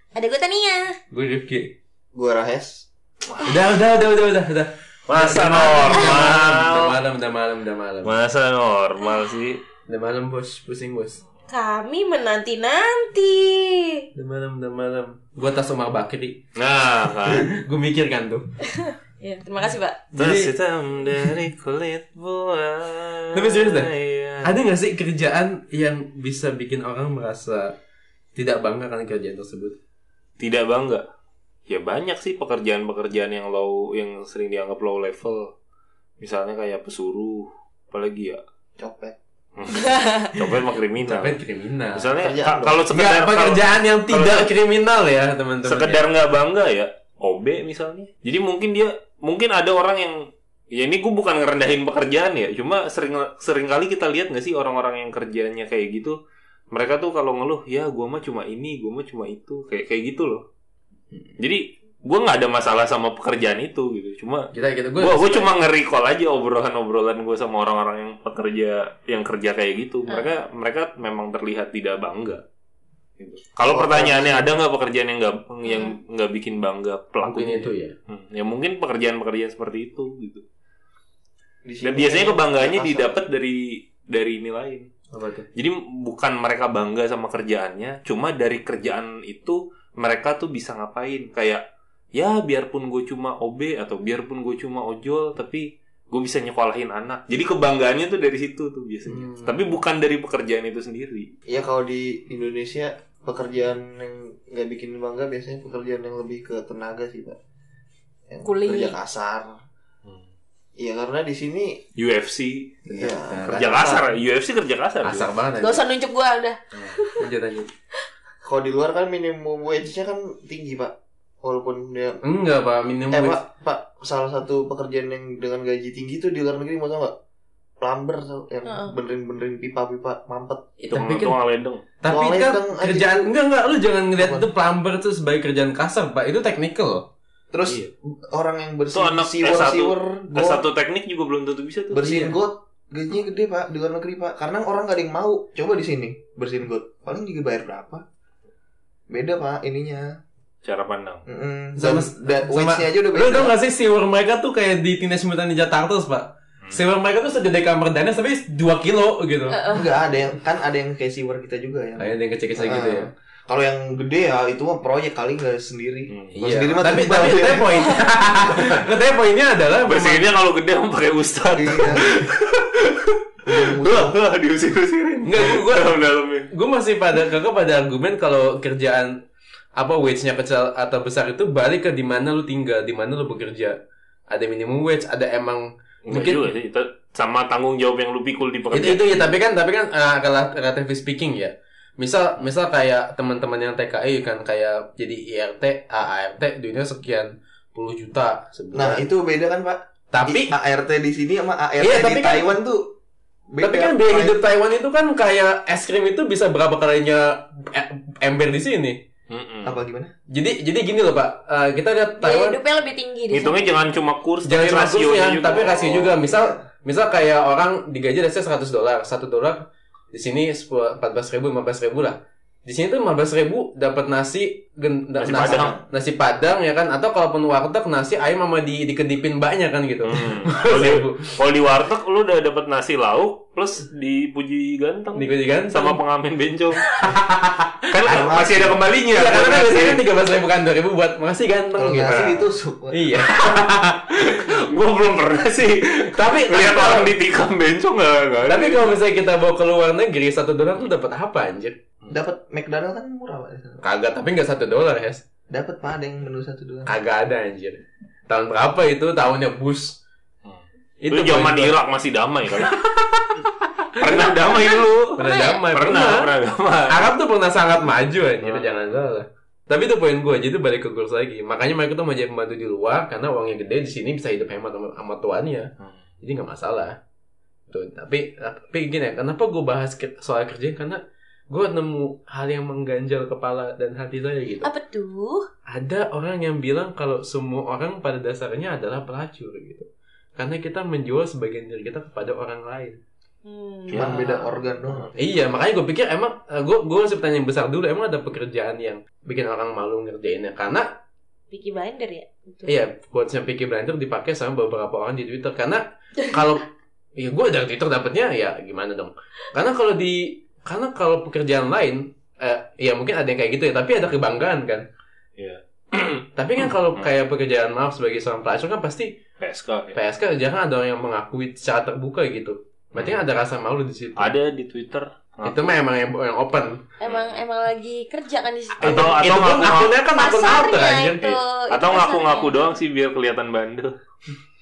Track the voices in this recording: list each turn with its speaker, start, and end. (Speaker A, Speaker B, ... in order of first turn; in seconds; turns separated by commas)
Speaker A: 0.1-1.0, Speaker B: 1.1-1.7, Speaker C: 2.1-2.9, Speaker B: 3.4-8.1, Speaker D: 5.1-7.0, Speaker D: 8.0-9.6, Speaker B: 9.9-11.2, Speaker A: 11.5-14.1, Speaker B: 14.2-16.4, Speaker D: 16.6-17.5, Speaker B: 17.2-18.4, Speaker A: 18.7-20.0, Speaker B: 20.1-20.5, Speaker D: 20.1-24.6, Speaker B: 23.3-27.8, Speaker B: 28.4-29.8, Speaker D: 30.4-31.0, Speaker D: 31.7-35.5, Speaker D: 36.2-38.4, Speaker C: 38.8-39.1, Speaker D: 39.6-41.4, Speaker A: 39.7-40.3, Speaker B: 41.0-42.1, Speaker D: 41.9-44.5, Speaker C: 42.2-42.9, Speaker B: 42.9-46.0, Speaker D: 45.6-56.2, Speaker D: 56.7-60.4, Speaker D: 61.4-72.4, Speaker B: 64.5-65.5, Speaker D: 73.2-80.4, Speaker C: 73.7-74.5, Speaker A: 75.7-76.0, Speaker B: 77.2-78.0, Speaker C: 81.7-83.2, Speaker D: 81.8-84.9, Speaker B: 85.1-85.5, Speaker D: 85.5-91.6, Speaker D: 92.1-101.3, Speaker B: 99.1-99.7, Speaker C: 101.5-107.4, Speaker C: 108.3-109.5, Speaker A: 108.4-109.0, Speaker C: 110.8-111.8, Speaker D: 112.0-112.8, Speaker B: 112.9-114.1, Speaker C: 112.9-113.9, Speaker D: 113.4-115.3, Speaker B: 115.0-115.9, Speaker A: 115.6-117.2, Speaker B: 117.2-117.7, Speaker C: 118.4-122.2, Speaker B: 122.2-123.4, Speaker C: 123.1-127.2, Speaker C: 127.8-130.7, Speaker A: 128.7-128.9, Speaker B: 130.8-131.4, Speaker D: 130.9-131.9, Speaker B: 132.0-137.1, Speaker C: 132.1-133.3, Speaker C: 134.2-134.5, Speaker C: 137.5-140.7, Speaker D: 138.9-142.4, Speaker C: 141.9-148.0, Speaker C: 149.1-150.2, Speaker D: 150.6-151.2, Speaker C: 151.3-153.5, Speaker B: 151.8-159.6, Speaker A: 159.5-159.9, Speaker C: 159.7-168.0, Speaker B: 162.0-163.1, Speaker D: 166.1-166.4, Speaker B: 166.4-170.3, Speaker D: 169.9-176.5, Speaker C: 171.6-172.3, Speaker C: 173.5-174.2, Speaker B: 175.2-176.0, Speaker B: 176.5-179.2, Speaker B: 179.8-183.8, Speaker B: 184.3-186.5, Speaker D: 186.1-189.1, Speaker B: 188.7-199.1, Speaker C: 198.7-202.9, Speaker B: 200.1-200.5, Speaker B: 201.8-202.6, Speaker C: 203.5-204.4, Speaker B: 203.6-209.0, Speaker D: 209.3-209.8, Speaker C: 209.6-210.1, Speaker B: 210.3-212.6, Speaker A: 212.2-213.7, Speaker D: 213.3-216.2, Speaker B: 214.4-231.3, Speaker C: 216.2-216.6, Speaker D: 225.2-225.7, Speaker C: 225.3-225.8, Speaker D: 230.0-236.9, Speaker B: 235.2-236.0, Speaker B: 236.9-238.3, Speaker D: 237.9-240.0, Speaker C: 238.1-238.8, Speaker B: 239.1-244.6, Speaker C: 241.8-243.1, Speaker D: 244.2-249.0, Speaker B: 246.0-247.2, Speaker B: 248.4-251.8, Speaker C: 252.1-253.8, Speaker B: 253.8-255.2, Speaker C: 255.5-256.9, Speaker B: 256.9-260.0, Speaker D: 260.4-262.9, Speaker B: 261.0-261.8, Speaker B: 262.6-264.6, Speaker D: 263.9-267.1, Speaker B: 265.2-266.3, Speaker A: 265.2-265.6, Speaker B: 266.9-275.7, Speaker D: 268.4-269.0, Speaker B: 276.2-277.0, Speaker B: 277.7-284.7, Speaker A: 284.6-285.5, Speaker B: 285.7-293.0, Speaker A: 293.4-294.5, Speaker D: 293.9-294.4, Speaker C: 293.9-295.2, Speaker B: 295.2-300.9, Speaker A: 301.5-302.8, Speaker B: 302.7-314.9, Speaker D: 315.4-317.1, Speaker B: 316.4-319.2, Speaker D: 319.4-320.0, Speaker B: 319.9-324.3, Speaker D: 322.9-323.2, Speaker D: 324.2-325.8, Speaker B: 325.4-326.8, Speaker A: 327.0-329.1, Speaker D: 327.1-327.4, Speaker D: 328.8-329.9, Speaker B: 328.8-331.2, Speaker A: 330.2-332.7, Speaker D: 331.2-333.9